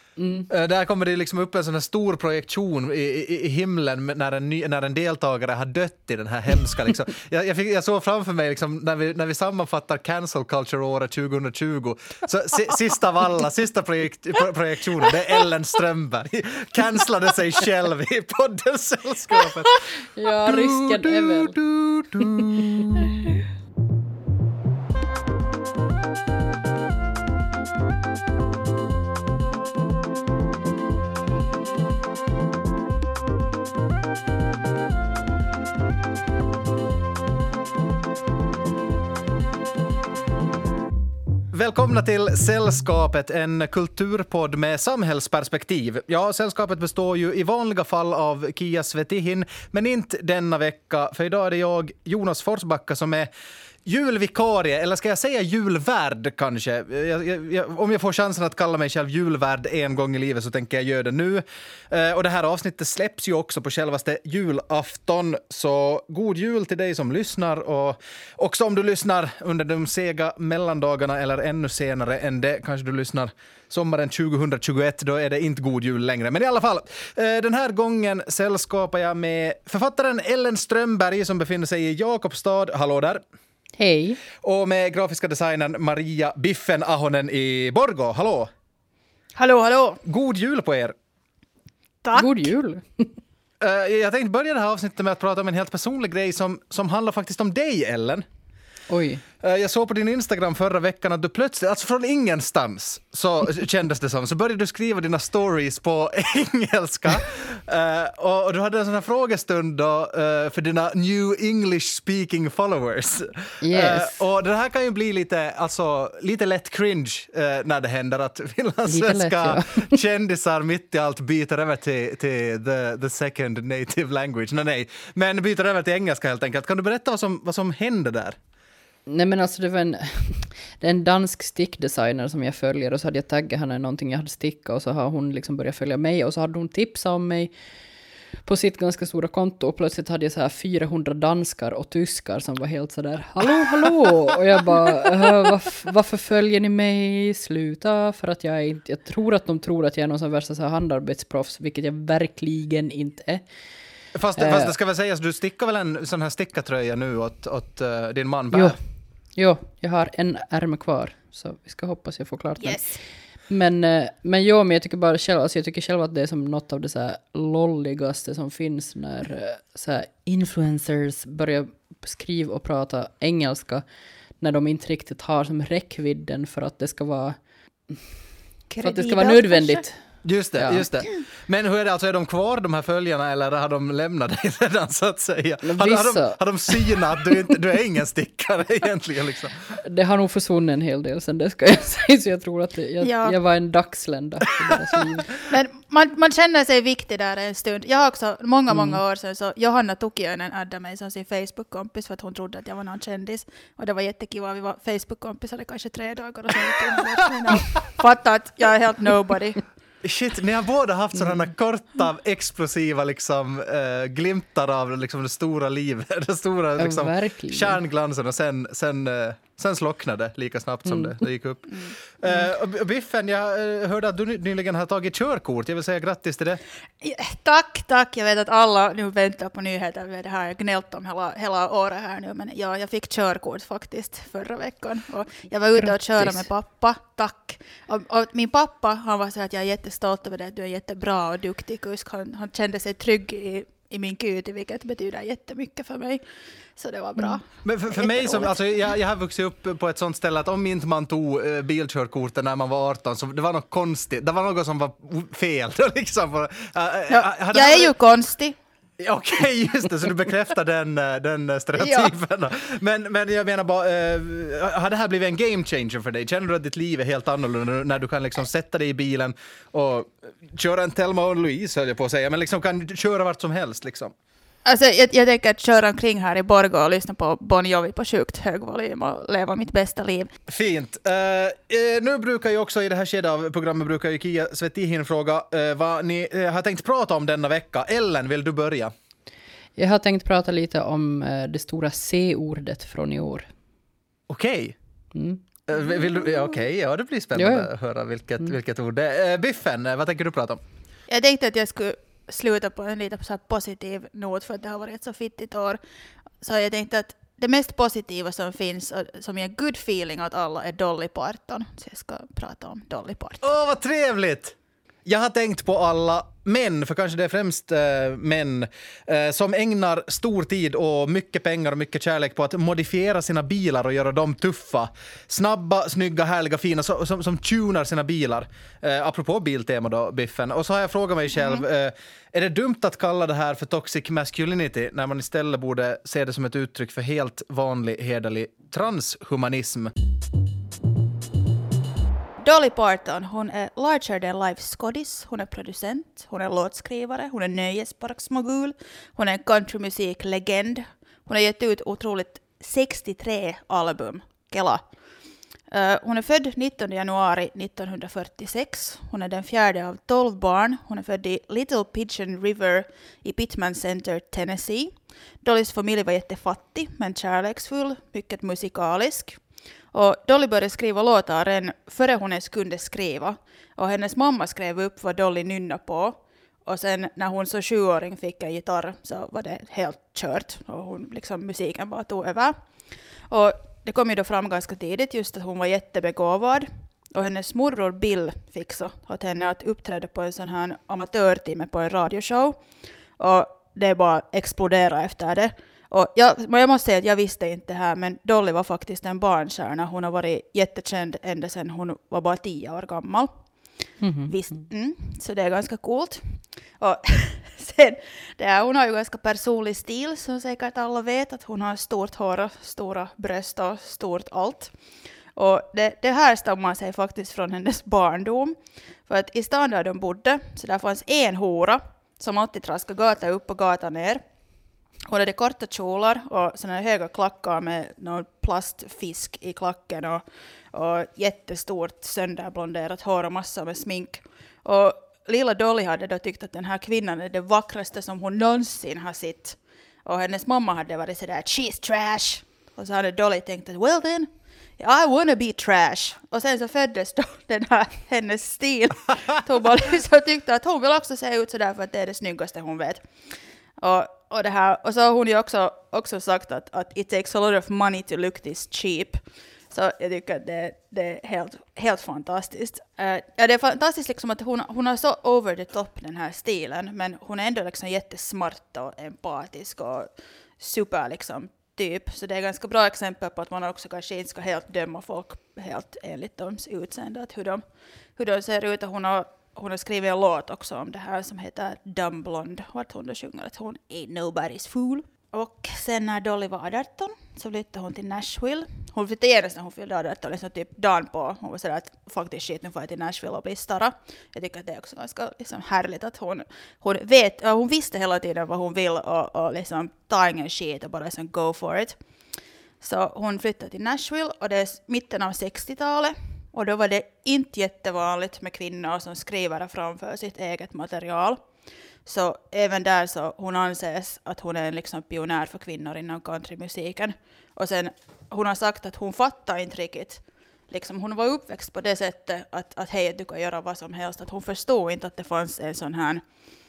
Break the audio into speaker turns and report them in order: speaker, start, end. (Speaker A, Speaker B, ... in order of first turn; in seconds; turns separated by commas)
Speaker A: 0.2-0.5, Speaker B: 0.5-19.9, Speaker A: 20.2-21.6, Speaker B: 20.5-23.4, Speaker A: 22.2-23.1, Speaker B: 41.5-53.3, Speaker B: 53.9-83.2, Speaker A: 83.8-84.2, Speaker B: 84.4-88.5, Speaker C: 89.4-90.0, Speaker B: 90.0-91.0, Speaker C: 92.0-92.5, Speaker A: 92.1-93.1, Speaker B: 93.6-98.3, Speaker A: 98.9-99.2, Speaker B: 99.4-128.4, Speaker A: 113.6-114.2, Speaker A: 118.9-120.0, Speaker A: 129.1-137.5, Speaker A: 138.4-153.4, Speaker B: 154.1-158.8, Speaker A: 154.4-154.7, Speaker A: 158.5-158.8, Speaker A: 159.4-162.9, Speaker C: 162.6-163.0, Speaker A: 163.5-173.8, Speaker A: 174.4-177.4, Speaker C: 178.7-179.9, Speaker A: 178.8-179.9, Speaker B: 180.2-189.6, Speaker A: 180.6-180.9, Speaker A: 185.6-187.3, Speaker A: 189.8-195.4, Speaker C: 193.0-193.4, Speaker C: 195.5-209.6, Speaker A: 198.7-199.0, Speaker B: 210.0-226.6, Speaker A: 216.8-217.8, Speaker A: 220.9-221.2, Speaker C: 227.0-246.2, Speaker A: 235.8-236.5, Speaker C: 246.8-248.6, Speaker B: 247.6-257.9, Speaker C: 257.1-258.6, Speaker B: 259.0-274.1, Speaker C: 261.8-262.1, Speaker C: 274.6-280.3, Speaker B: 280.5-288.9, Speaker A: 289.8-293.5, Speaker B: 294.3-294.8, Speaker A: 295.1-295.4, Speaker B: 295.7-300.6, Speaker A: 297.4-297.7, Speaker C: 301.1-305.8, Speaker C: 306.4-313.5, Speaker B: 313.4-314.6, Speaker B: 315.1-339.9, Speaker C: 342.4-354.8, Speaker C: 355.7-369.4, Speaker C: 369.9-382.6, Speaker C: 383.3-392.6, Speaker C: 393.2-403.3, Speaker A: 404.0-404.4, Speaker C: 404.3-414.7, Speaker C: 415.4-418.6, Speaker C: 419.1-424.2, Speaker C: 425.1-453.1, Speaker C: 453.8-459.2, Speaker C: 459.7-477.6, Speaker C: 478.2-502.0, Speaker C: 502.8-511.4, Speaker C: 512.0-526.2